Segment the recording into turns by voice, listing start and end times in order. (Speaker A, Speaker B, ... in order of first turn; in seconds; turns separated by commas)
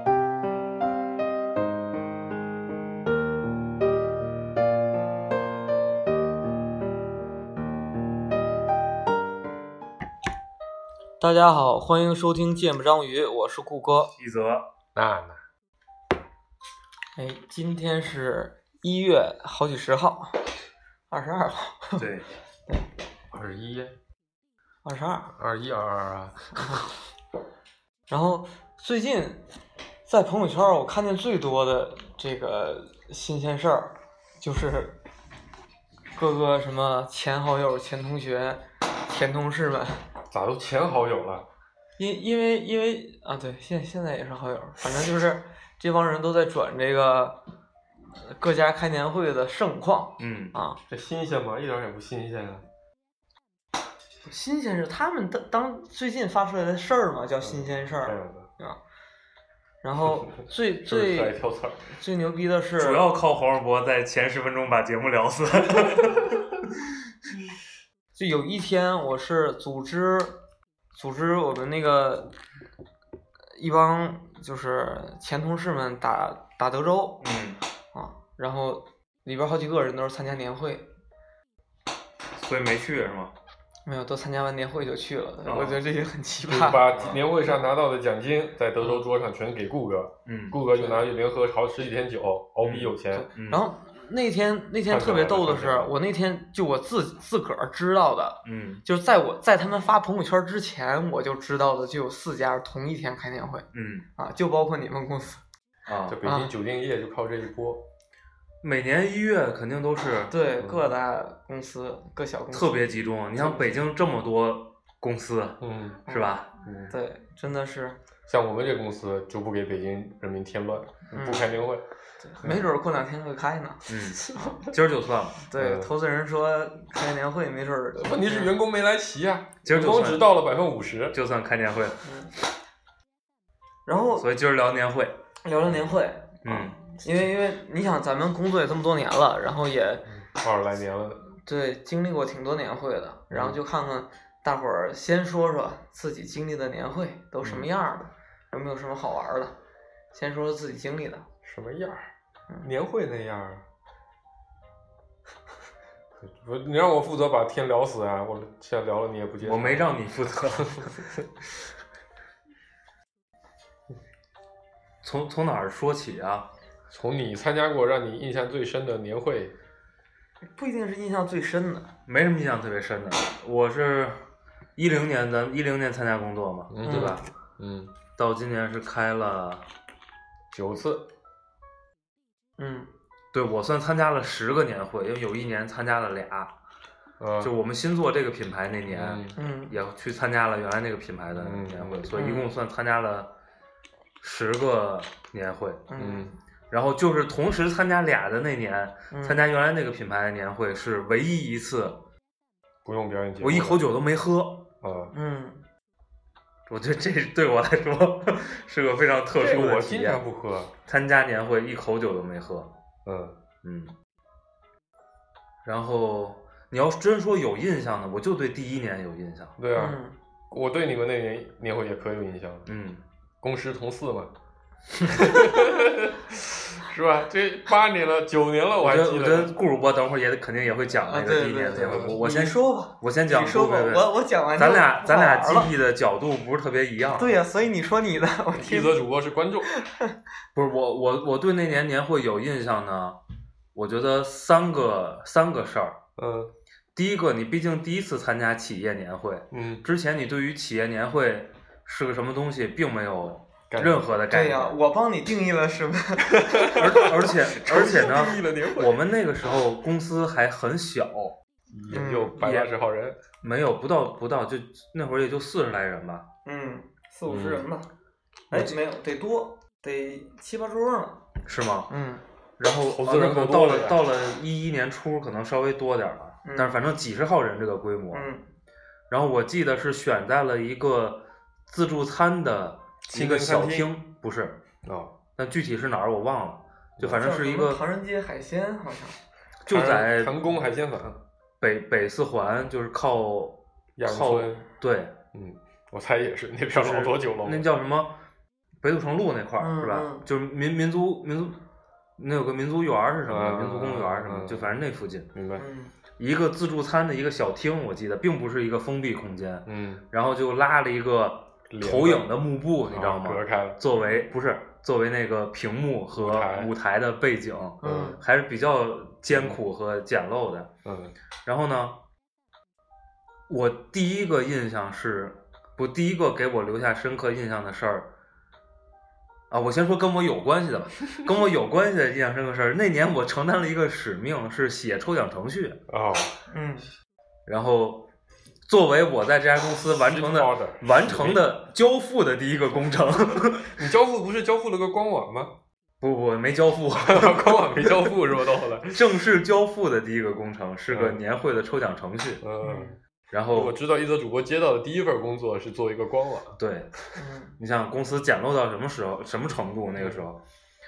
Speaker A: 11.2-14.1, Speaker B: 14.2-14.7, Speaker C: 14.9-15.4, Speaker A: 17.2-20.4, Speaker A: 21.1-22.1, Speaker B: 22.0-22.3, Speaker C: 23.3-23.9, Speaker A: 24.8-25.3, Speaker C: 25.3-26.5, Speaker A: 26.6-26.9, Speaker A: 28.1-29.4, Speaker A: 30.1-35.0, Speaker A: 36.1-40.0, Speaker C: 40.3-41.5, Speaker A: 42.0-47.4, Speaker A: 48.2-50.8, Speaker B: 50.2-50.5, Speaker C: 50.9-52.7, Speaker A: 54.2-58.8, Speaker C: 57.4-58.5, Speaker A: 59.8-61.4, Speaker C: 60.9-62.0, Speaker A: 61.9-63.0, Speaker B: 62.8-66.5, Speaker A: 68.2-70.4, Speaker A: 70.9-72.3, Speaker A: 73.6-77.2, Speaker B: 77.2-77.6, Speaker A: 77.9-80.9, Speaker B: 82.4-83.3, Speaker A: 83.9-86.9, Speaker B: 85.5-85.8, Speaker C: 86.5-93.3, Speaker B: 90.3-90.6, Speaker A: 90.8-91.0, Speaker B: 92.6-93.6, Speaker A: 93.1-105.4, Speaker C: 94.9-95.9, Speaker B: 98.5-98.8, Speaker B: 103.7-104.1, Speaker B: 105.9-106.2, Speaker C: 106.1-107.8, Speaker A: 106.2-106.5, Speaker B: 108.6-110.3, Speaker A: 110.3-112.8, Speaker B: 112.5-116.5, Speaker C: 115.6-116.0, Speaker C: 116.6-116.9, Speaker A: 116.9-118.0, Speaker C: 118.3-121.8, Speaker A: 121.1-121.5, Speaker A: 122.2-124.5, Speaker B: 123.9-125.4, Speaker A: 125.5-128.5, Speaker C: 125.6-125.9, Speaker C: 127.9-131.2, Speaker B: 129.6-130.3, Speaker B: 131.1-132.0, Speaker A: 132.0-132.3, Speaker A: 133.9-134.3, Speaker B: 134.2-135.2, Speaker A: 135.4-140.0, Speaker B: 136.4-136.8, Speaker C: 140.1-141.3, Speaker A: 141.5-149.5, Speaker A: 150.1-151.3, Speaker C: 151.4-152.1, Speaker C: 152.6-153.6, Speaker C: 156.2-159.9, Speaker B: 159.4-160.9, Speaker C: 160.6-161.2, Speaker B: 165.0-166.5, Speaker C: 166.9-169.5, Speaker A: 170.5-171.9, Speaker B: 172.1-174.2, Speaker B: 174.8-177.2, Speaker C: 176.7-177.9, Speaker A: 176.8-177.2, Speaker B: 178.2-179.7, Speaker C: 180.5-181.1, Speaker A: 182.6-182.9, Speaker B: 183.3-186.5, Speaker C: 187.2-187.5, Speaker B: 187.4-193.3, Speaker C: 188.9-189.4, Speaker A: 189.4-189.8, Speaker C: 191.4-192.1, Speaker A: 192.2-192.5, Speaker B: 194.2-195.9, Speaker A: 195.9-196.3, Speaker C: 196.0-196.3, Speaker B: 196.7-202.0, Speaker A: 199.1-199.4, Speaker C: 202.8-203.9, Speaker B: 203.4-204.7, Speaker C: 204.8-205.1, Speaker A: 205.1-205.6, Speaker B: 206.7-210.2, Speaker C: 209.3-210.7, Speaker B: 210.9-212.7, Speaker C: 213.1-213.4, Speaker B: 213.6-213.9, Speaker B: 215.6-219.6, Speaker C: 219.6-220.0, Speaker A: 219.8-220.2, Speaker C: 220.5-222.7, Speaker B: 222.7-223.0, Speaker C: 223.4-224.3, Speaker C: 225.1-229.6, Speaker B: 228.8-237.3, Speaker A: 231.1-235.7, Speaker C: 231.8-232.2, Speaker A: 237.2-239.1, Speaker C: 238.6-239.7, Speaker A: 239.7-240.2, Speaker B: 240.6-243.2, Speaker B: 243.8-246.0, Speaker C: 246.2-246.5, Speaker B: 246.9-254.8, Speaker C: 249.5-249.8, Speaker C: 253.7-254.0, Speaker A: 254.3-256.8, Speaker C: 256.3-259.0, Speaker B: 256.6-261.4, Speaker C: 261.7-263.2, Speaker A: 261.9-262.4, Speaker B: 262.4-262.7, Speaker B: 263.4-266.2, Speaker A: 266.4-267.9, Speaker C: 267.3-267.6, Speaker A: 268.5-271.2, Speaker B: 271.4-271.9, Speaker A: 271.9-272.2, Speaker B: 272.6-278.3, Speaker C: 272.9-274.0, Speaker A: 276.4-276.8, Speaker A: 278.1-278.4, Speaker B: 279.1-284.6, Speaker C: 283.1-283.9, Speaker C: 284.9-285.1, Speaker B: 285.4-287.8, Speaker C: 287.0-287.2, Speaker A: 287.1-289.2, Speaker B: 289.6-290.4, Speaker C: 289.7-291.2, Speaker B: 291.6-295.1, Speaker C: 294.0-294.6, Speaker C: 295.3-297.7, Speaker B: 296.7-298.2, Speaker B: 298.8-301.6, Speaker A: 299.6-300.2, Speaker B: 302.2-305.3, Speaker C: 303.3-304.8, Speaker C: 305.3-305.6, Speaker A: 305.6-305.9, Speaker B: 306.2-320.7, Speaker C: 309.7-310.0, Speaker C: 311.7-312.3, Speaker C: 312.8-313.8, Speaker C: 316.1-316.7, Speaker A: 317.8-318.2, Speaker C: 317.8-318.1, Speaker C: 319.3-319.6, Speaker C: 320.9-321.1, Speaker B: 321.4-322.0, Speaker B: 323.5-328.1, Speaker B: 329.5-335.8, Speaker C: 335.9-336.3, Speaker A: 336.5-336.9, Speaker B: 337.5-338.1, Speaker B: 338.7-343.8, Speaker C: 340.1-341.4, Speaker C: 343.8-345.5, Speaker B: 346.0-348.1, Speaker C: 347.0-349.2, Speaker B: 348.9-352.4, Speaker C: 350.9-351.2, Speaker C: 352.4-353.0, Speaker A: 352.6-353.0, Speaker B: 353.3-353.8, Speaker C: 353.5-356.6, Speaker B: 356.6-356.9, Speaker A: 357.2-357.6, Speaker B: 357.6-360.4, Speaker C: 360.0-360.2